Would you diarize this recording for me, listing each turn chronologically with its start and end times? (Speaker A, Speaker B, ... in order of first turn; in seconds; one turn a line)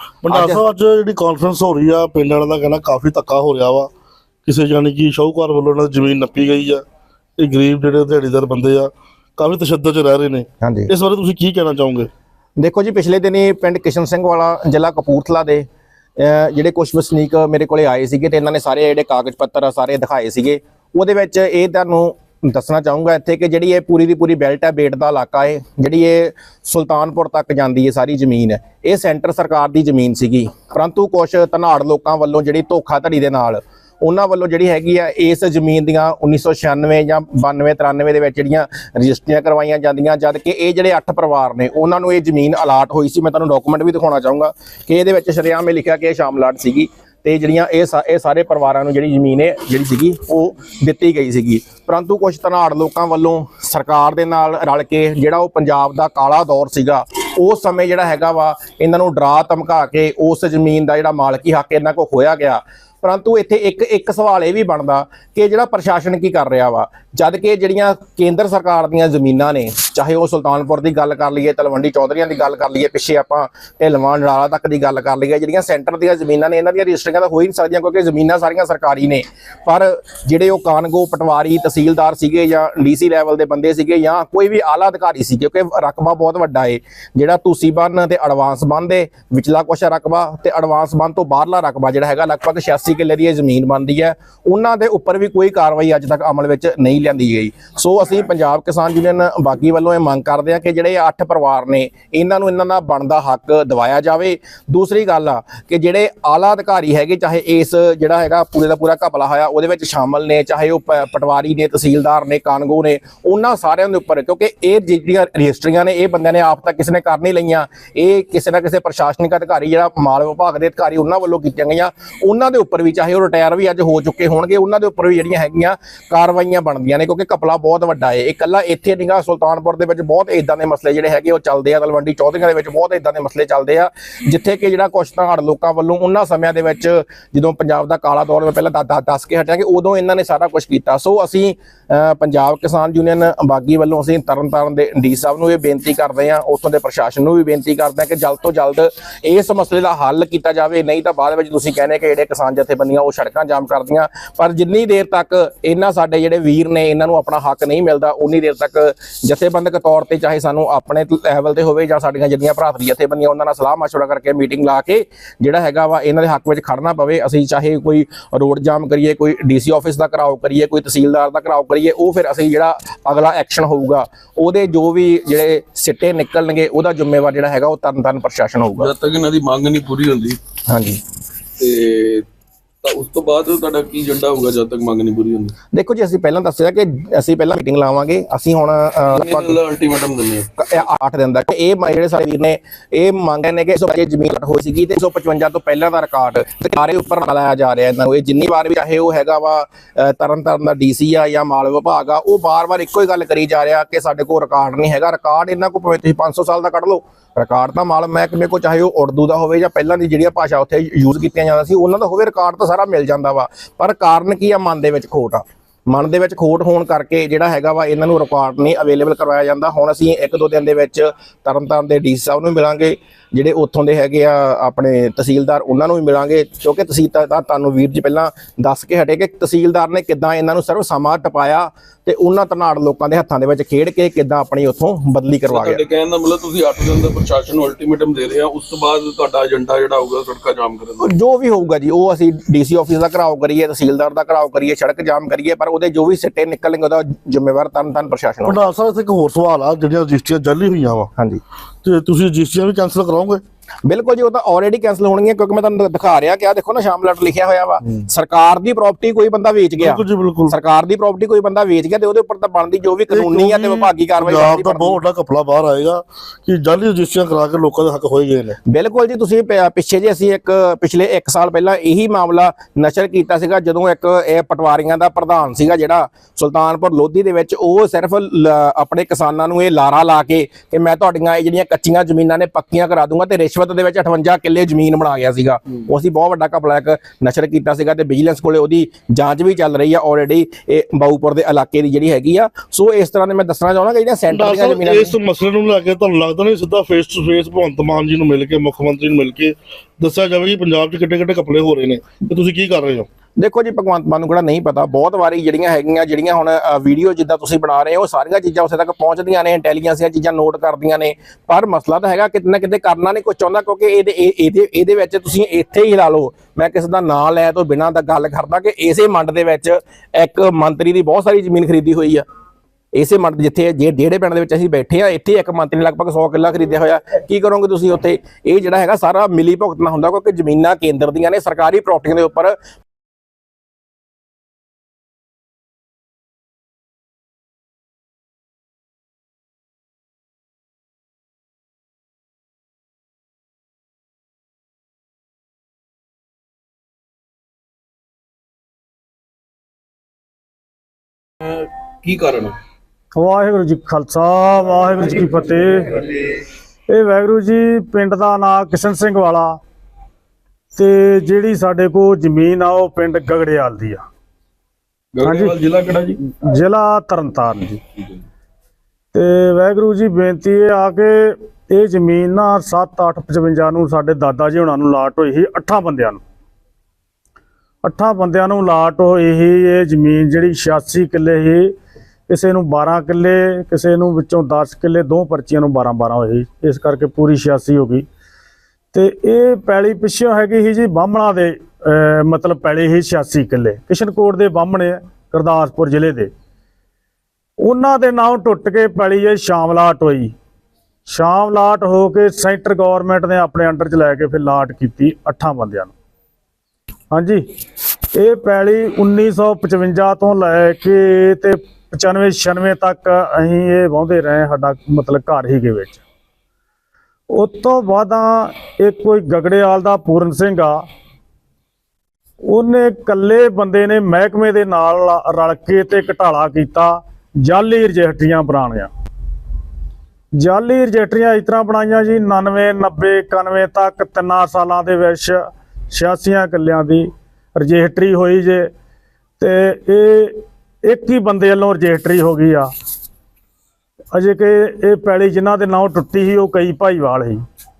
Speaker A: 0.2-3.9
Speaker B: 0.3-0.6
Speaker A: 4.4-6.8
Speaker A: 7.4-12.1
Speaker B: 10.6-10.9
Speaker B: 12.6-15.7
Speaker B: 16.2-178.9
Speaker C: 178.8-180.4
Speaker B: 180.7-181.0
Speaker C: 181.6-182.2
Speaker C: 182.8-185.5
Speaker B: 185.7-189.6
Speaker C: 189.1-190.5
Speaker B: 190.6-235.8
Speaker C: 235.5-241.1
Speaker B: 241.0-248.6
Speaker A: 248.4-251.1
Speaker B: 251.2-251.4
Speaker A: 251.8-253.4
Speaker B: 253.8-265.0
Speaker A: 259.8-260.5
Speaker A: 263.1-268.6
Speaker B: 268.7-295.1
Speaker A: 294.3-303.1
Speaker B: 303.4-322.2
Speaker B: 322.9-332.6
Speaker C: 351.4-352.6
Speaker D: 353.1-356.1
Speaker D: 356.9-359.6
Speaker D: 360.7-364.0
Speaker C: 365.1-366.2
Speaker D: 365.2-365.6
Speaker D: 366.2-367.8
Speaker D: 369.1-376.2
Speaker D: 377.8-381.7
Speaker D: 382.3-388.1
Speaker D: 388.9-396.3
Speaker D: 397.6-400.3
Speaker D: 401.1-405.9
Speaker D: 407.1-407.4
Speaker D: 408.1-416.0
Speaker D: 417.3-420.8
Speaker D: 422.4-428.9
Speaker D: 430.3-438.7
Speaker D: 439.4-442.7
Speaker D: 444.1-447.4